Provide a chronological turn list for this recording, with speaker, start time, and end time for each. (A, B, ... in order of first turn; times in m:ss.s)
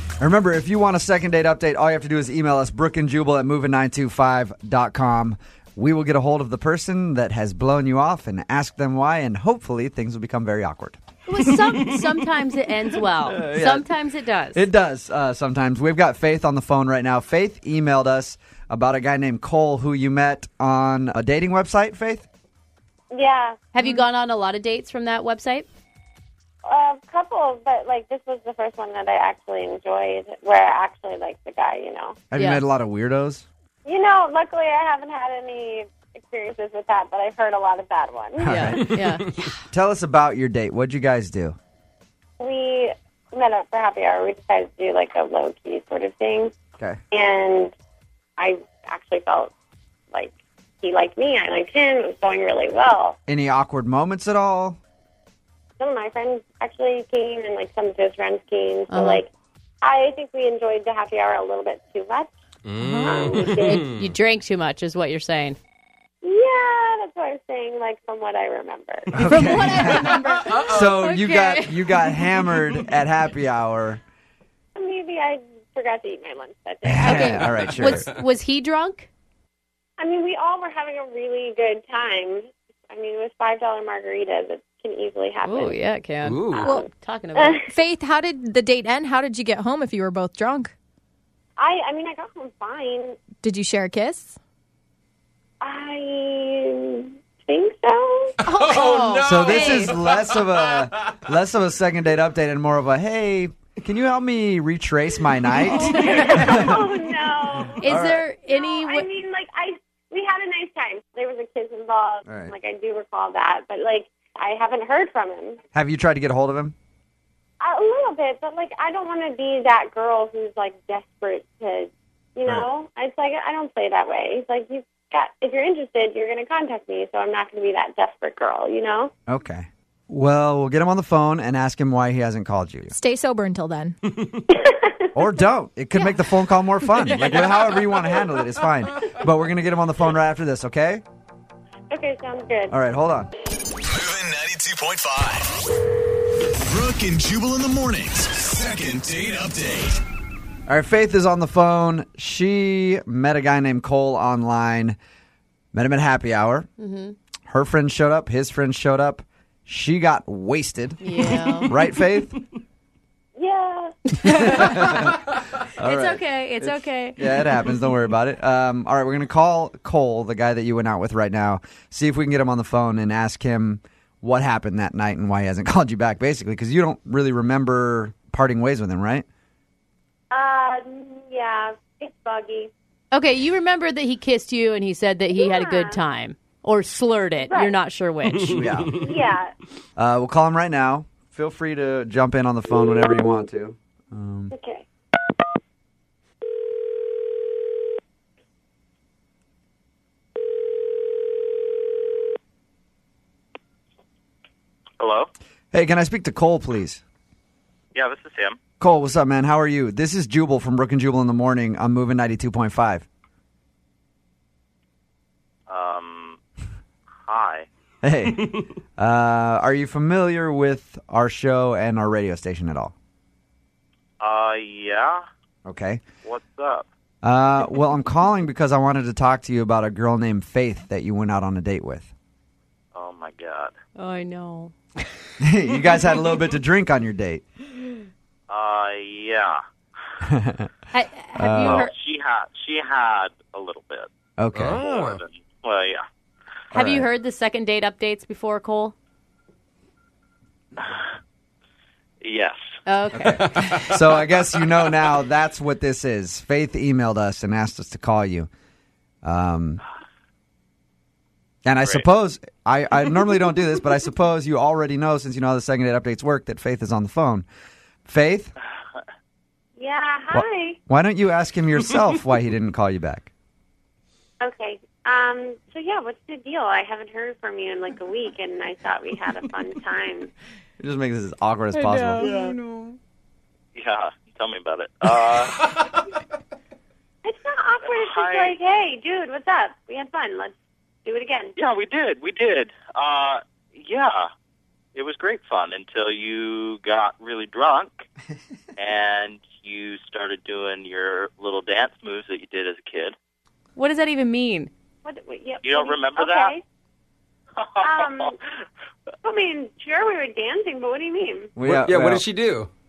0:00.2-0:11.0 A
0:11.3-0:14.6 B
0:13.2-0:13.9 A
0:14.5-0:22.2 A
0:23.1-0:23.6 C
0:23.7-0:25.7 B
0:26.6-0:32.2 C
0:32.3-0:33.4 A
0:32.3-0:32.6 B
0:33.8-0:38.6 C
0:38.4-0:41.6 A
0:38.4-0:39.2 B
0:42.4-0:46.5 C
0:47.1-0:47.7 C
0:48.4-0:49.5 C
0:50.1-0:53.2 C
0:53.3-0:54.8 A
0:55.8-0:59.3 C
0:58.9-0:59.2 B
0:59.8-1:02.3 C
1:02.7-1:03.8 D
1:02.8-1:05.6 B
1:03.0-1:03.8 C
1:06.2-1:09.4 C
1:09.1-1:14.0 A
1:09.2-1:12.2 B
1:10.5-1:10.8 D
1:14.8-1:17.7 C
1:16.8-1:18.1 A
1:17.0-1:19.1 B
1:20.0-1:25.8 C
1:25.4-1:27.6 B
1:26.2-1:26.6 D
1:26.6-1:27.7 C
1:27.7-1:30.7 E
1:31.6-1:33.2 C
1:33.4-1:34.4 E
1:35.6-1:38.3 C
1:38.4-1:40.0 B
1:38.5-1:40.9 D
1:39.2-1:46.9 A
1:45.7-1:47.9 C
1:46.2-1:46.4 B
1:47.8-1:49.1 B
1:47.8-1:48.2 A
1:48.5-1:55.6 C
1:52.2-1:52.5 A
1:55.7-1:56.7 A
1:57.6-2:09.1 C
2:09.3-2:12.9 A
2:12.9-2:14.0 E
2:14.5-2:14.9 C
2:15.1-2:21.0 A
2:21.9-2:22.7 C
2:22.7-2:23.3 A
2:23.8-2:25.5 F
2:26.6-2:30.0 F
2:30.7-2:35.0 A
2:35.7-2:36.7 A
2:36.8-2:37.2 B
2:37.5-2:42.4 A
2:41.0-2:41.7 B
2:43.4-2:44.0 C
2:44.1-2:45.2 B
2:44.4-2:45.2 A
2:45.8-2:59.2 A
2:45.8-2:47.7 B
3:00.3-3:02.7 C
3:03.1-3:08.7 B
3:05.4-3:06.0 C
3:07.4-3:07.8 C
3:08.4-3:09.1 A
3:08.9-3:09.5 C
3:10.0-3:14.5 A
3:14.5-3:14.8 C
3:25.0-3:25.3 G
3:25.7-3:27.0 A
3:27.9-3:28.6 G
3:28.8-3:33.0 A
3:35.7-3:36.4 G
3:37.2-3:37.6 G
3:38.0-3:42.9 A
3:44.2-3:45.2 G
3:45.6-3:46.0 A
3:46.2-3:46.9 G
3:47.2-3:52.1 A
3:52.9-3:53.7 G
3:54.0-3:54.8 B
3:55.4-3:57.4 A
3:58.5-3:59.6 G
4:00.2-4:00.7 A
4:00.9-4:01.9 B
4:01.4-4:01.8 A
4:01.6-4:04.1 G
4:04.4-4:04.8 A
4:04.6-4:05.2 D
4:04.7-4:06.0 G
4:06.7-4:07.1 A
4:06.7-4:08.9 B
4:12.2-4:12.6 G
4:12.8-4:13.6 B
4:13.1-4:18.5 A
4:19.2-4:19.8 A
4:21.6-4:27.4 A
4:28.0-4:28.5 A
4:29.8-4:30.8 C
4:30.3-4:33.3 A
4:34.4-4:40.3 C
4:40.8-4:42.4 A
4:42.2-4:42.9 D
4:43.8-4:45.6 G
4:47.2-4:50.5 C
4:47.8-4:48.6 G
4:51.0-4:51.5 C
4:51.6-4:54.3 G
4:54.9-4:58.0 G
4:58.8-5:03.1 G
5:03.7-5:04.7 B
5:05.0-5:06.6 C
5:05.6-5:06.5 G
5:07.6-5:08.2 G
5:07.8-5:08.4 C
5:09.2-5:11.5 C
5:11.6-5:12.3 A
5:11.6-5:12.7 D